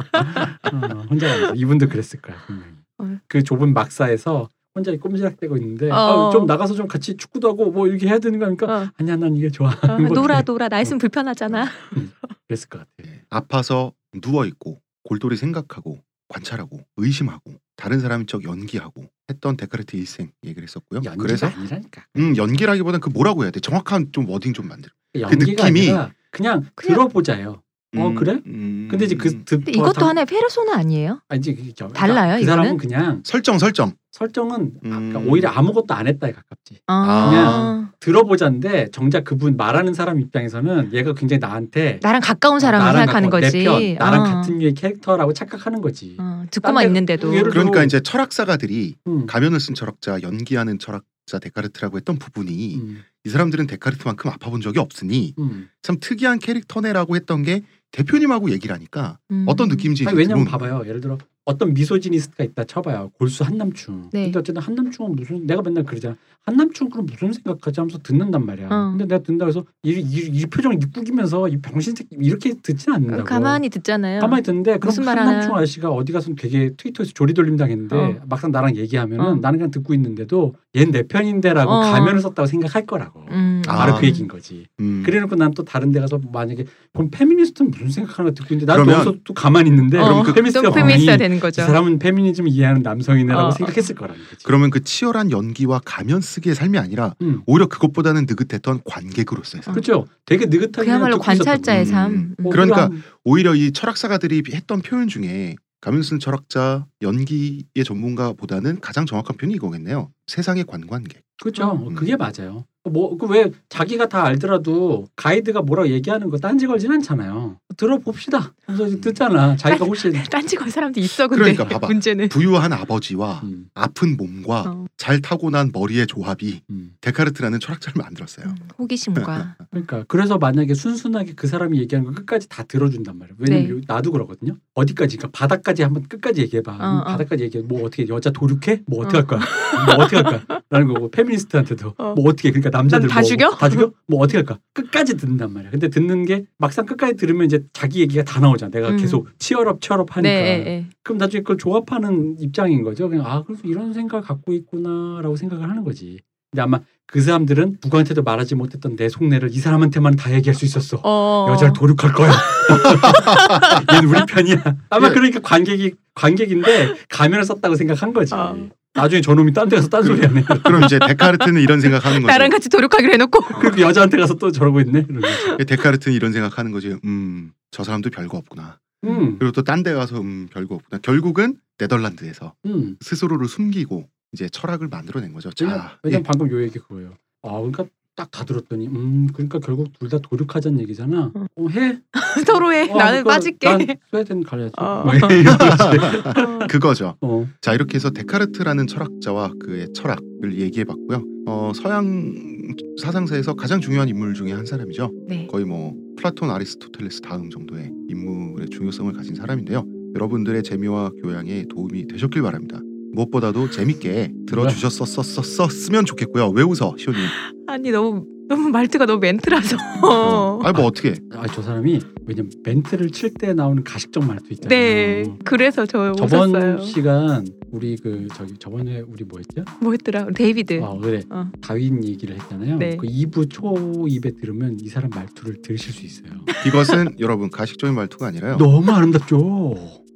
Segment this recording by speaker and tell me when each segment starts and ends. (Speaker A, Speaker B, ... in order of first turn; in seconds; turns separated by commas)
Speaker A: 0.1-10.5, Speaker B: 5.9-6.5, Speaker B: 8.7-8.9, Speaker B: 9.9-12.3, Speaker A: 11.9-13.1, Speaker C: 13.1-21.6, Speaker A: 21.0-22.5, Speaker C: 22.1-26.0, Speaker A: 25.1-30.2, Speaker C: 27.9-29.6, Speaker B: 29.7-31.2, Speaker A: 31.3-33.2, Speaker B: 31.9-32.8, Speaker C: 33.2-34.0, Speaker A: 34.1-42.1, Speaker C: 34.8-35.5, Speaker B: 36.9-37.9, Speaker C: 37.0-37.8, Speaker B: 42.0-44.6, Speaker A: 42.6-48.0, Speaker B: 46.2-47.6, Speaker C: 47.5-60.7, Speaker A: 49.1-49.3, Speaker A: 52.7-53.0, Speaker A: 55.4-55.7, Speaker B: 59.3-59.9, Speaker A: 60.0-73.6, Speaker B: 64.1-64.4, Speaker B: 68.7-69.0, Speaker B: 73.1-75.6, Speaker A: 74.2-94.5, Speaker B: 77.9-78.2, Speaker B: 81.7-82.2, Speaker B: 83.3-84.3, Speaker C: 83.7-84.2, Speaker C: 84.8-85.2, Speaker C: 88.7-89.2, Speaker C: 90.0-91.2, Speaker B: 90.0-91.8, Speaker B: 93.3-93.9, Speaker C: 94.4-99.8, Speaker A: 97.2-97.5, Speaker A: 99.7-103.0, Speaker B: 100.8-102.7, Speaker C: 101.7-111.3, Speaker A: 111.4-120.3, Speaker B: 111.6-111.8, Speaker C: 119.0-119.2, Speaker B: 119.7-122.4, Speaker C: 121.3-128.6, Speaker A: 123.4-123.7, Speaker A: 126.7-127.0, Speaker B: 128.5-129.7, Speaker C: 129.2-129.5, Speaker A: 129.7-170.9, Speaker B: 133.4-133.8, Speaker B: 136.8-137.3, Speaker B: 139.0-140.6, Speaker B: 142.9-143.9, Speaker B: 148.9-149.2, Speaker B: 150.2-150.9, Speaker B: 161.0-163.8, Speaker C: 163.3-163.7, Speaker B: 168.3-168.8, Speaker C: 170.0-172.5, Speaker B: 170.8-173.8, Speaker A: 173.5-175.6, Speaker B: 175.3-175.6, Speaker C: 175.6-186.2, Speaker A: 179.0-179.4, Speaker B: 179.0-179.3, Speaker A: 182.6-183.0, Speaker A: 185.6-192.2, Speaker B: 192.1-194.0, Speaker A: 192.8-196.7, Speaker B: 194.8-196.7, Speaker C: 195.5-217.3, Speaker A: 197.2-197.5, Speaker A: 214.5-214.8, Speaker B: 217.2-220.7, Speaker C: 220.2-221.2, Speaker A: 221.3-225.4, Speaker B: 224.6-227.0, Speaker A: 226.2-229.7, Speaker B: 229.8-231.5, Speaker A: 230.8-236.5, Speaker B: 232.8-233.1, Speaker B: 236.5-237.0, Speaker C: 236.6-238.7, Speaker A: 238.5-240.0